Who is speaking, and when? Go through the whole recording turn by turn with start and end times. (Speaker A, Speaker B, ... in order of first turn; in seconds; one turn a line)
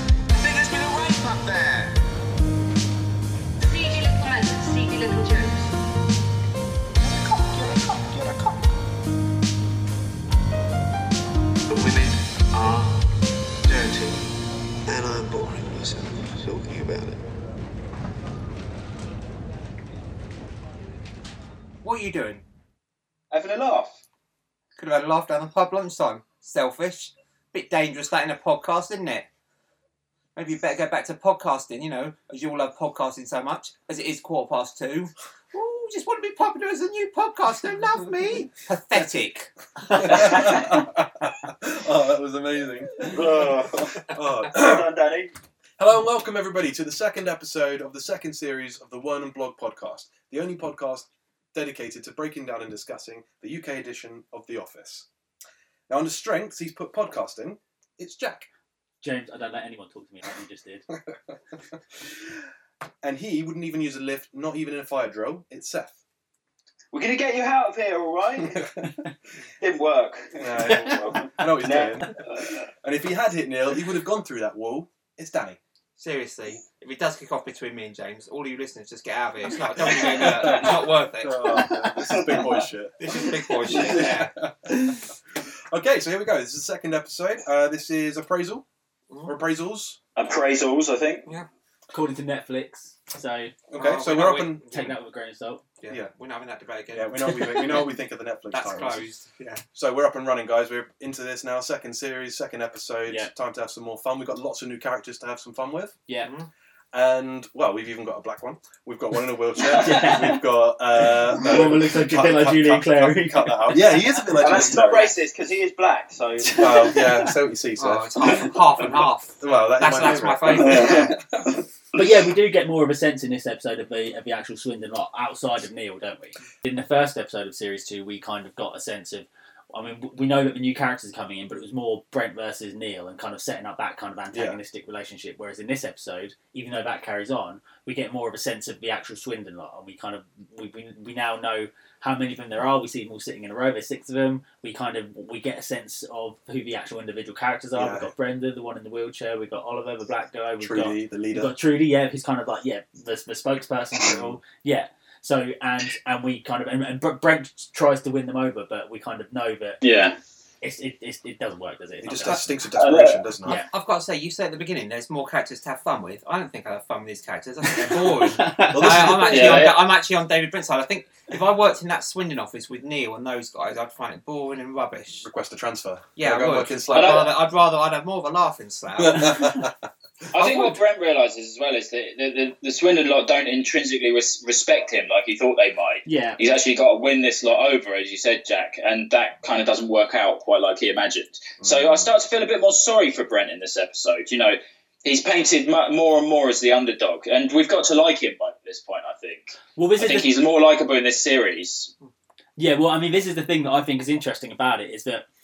Speaker A: 0.4-1.9
Speaker B: 3.6-5.7
Speaker A: 7.0-8.6
Speaker A: 11.7-12.9
Speaker A: 13.7-14.2
Speaker A: 14.9-17.2
Speaker C: 21.8-22.4
Speaker D: 23.3-24.0
Speaker C: 24.8-29.3
Speaker C: 30.4-39.5
Speaker E: 39.9-44.9
Speaker D: 43.0-43.9
Speaker D: 44.5-45.3
Speaker E: 45.8-55.0
Speaker E: 55.9-58.5
Speaker F: 59.0-60.9
Speaker E: 63.0-66.0
Speaker D: 66.9-68.6
Speaker E: 68.5-68.8
Speaker D: 69.6-72.5
Speaker E: 70.4-72.2
Speaker F: 70.7-70.9
Speaker E: 72.8-75.6
Speaker C: 76.0-81.7
Speaker E: 79.9-85.0
Speaker D: 81.6-82.6
Speaker C: 83.0-84.3
Speaker E: 85.7-88.6
Speaker C: 89.1-89.3
Speaker E: 89.2-90.0
Speaker D: 90.2-91.3
Speaker F: 91.9-93.5
Speaker E: 93.7-94.6
Speaker C: 93.8-94.9
Speaker F: 94.7-95.6
Speaker C: 95.8-97.8
Speaker E: 96.9-99.1
Speaker C: 98.5-99.6
Speaker E: 99.7-106.0
Speaker C: 106.2-106.5
Speaker E: 106.9-115.1
Speaker F: 109.7-110.4
Speaker D: 109.8-110.3
Speaker F: 111.4-113.9
Speaker D: 114.3-117.0
Speaker F: 114.5-114.7
Speaker F: 116.4-117.3
Speaker E: 116.5-121.5
Speaker C: 117.8-121.2
Speaker D: 120.5-121.1
Speaker F: 121.9-159.8
Speaker E: 134.3-134.6
Speaker E: 147.7-148.1
Speaker E: 150.6-151.5
Speaker E: 154.0-154.4
Speaker D: 159.8-160.2
Speaker F: 160.6-162.4
Speaker E: 162.0-163.6
Speaker D: 162.7-163.2
Speaker F: 163.4-163.7
Speaker C: 163.5-175.3
Speaker F: 168.3-169.0
Speaker E: 168.7-169.7
Speaker D: 169.3-169.8
Speaker E: 175.2-177.3
Speaker C: 176.2-179.5
Speaker D: 176.9-177.3
Speaker E: 179.0-179.8
Speaker D: 180.3-201.9
Speaker F: 186.1-186.4
Speaker E: 191.6-192.1
Speaker F: 199.8-200.3
Speaker F: 202.6-205.2